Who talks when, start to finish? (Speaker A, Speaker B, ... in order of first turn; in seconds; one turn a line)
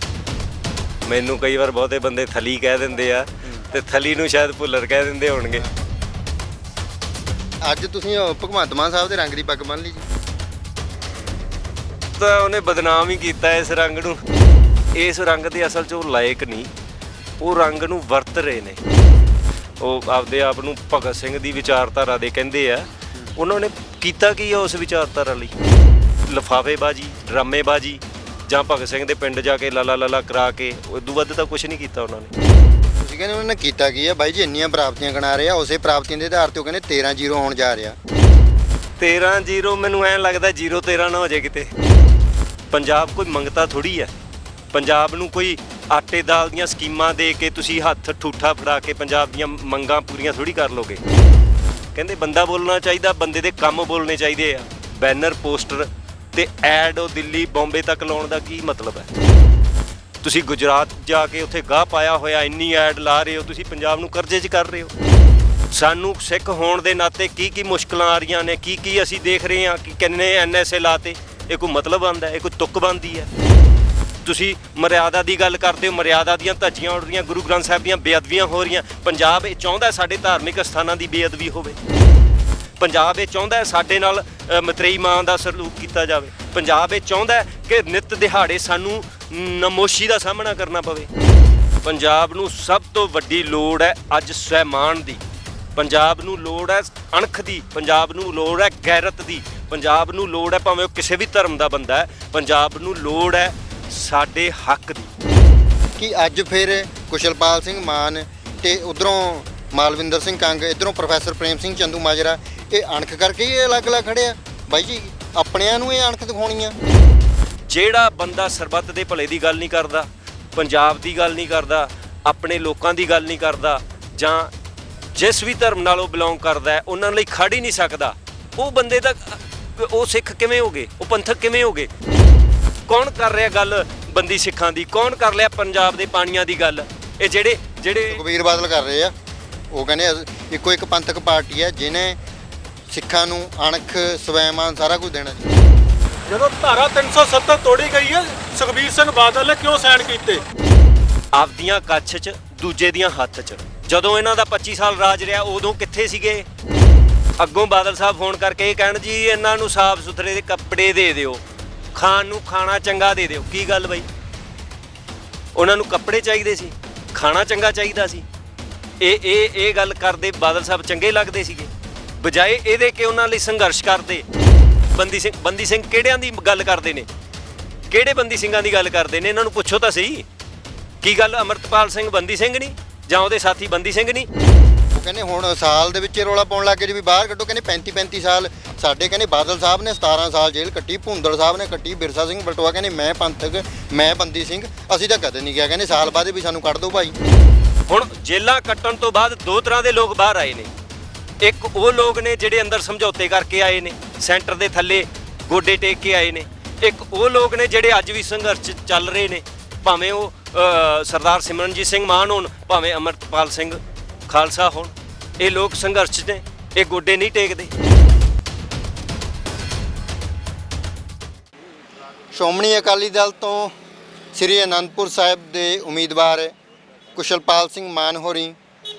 Speaker A: 1.1-5.6
Speaker B: 7.6-10.0
Speaker A: 12.2-14.2
Speaker A: 14.9-16.7
Speaker A: 17.4-18.8
Speaker A: 19.8-25.5
Speaker A: 26.3-32.3
Speaker B: 33.0-38.0
Speaker A: 39.0-41.7
Speaker A: 42.7-44.1
Speaker A: 44.7-51.0
Speaker A: 52.0-59.1
Speaker A: 60.2-64.9
Speaker A: 65.7-73.3
Speaker A: 74.2-81.8
Speaker A: 82.8-91.1
Speaker A: 91.8-95.2
Speaker A: 95.8-105.1
Speaker B: 106.0-116.8
Speaker A: 117.7-124.5
Speaker A: 125.2-131.9
Speaker A: 132.9-138.2
Speaker B: 138.1-139.1
Speaker B: 139.7-142.2
Speaker B: 142.9-145.5
Speaker C: 146.3-150.4
Speaker A: 151.3-156.5
Speaker A: 157.4-161.4
Speaker A: 161.9-164.1
Speaker A: 165.6-168.2
Speaker A: 169.0-174.2
Speaker A: 174.9-177.1
Speaker A: 177.9-180.2
Speaker A: 181.0-184.3
Speaker B: 184.9-197.2
Speaker A: 197.9-200.7
Speaker A: 201.4-217.7
Speaker B: 222.3-223.7
Speaker B: 224.3-226.6
Speaker B: 227.2-228.6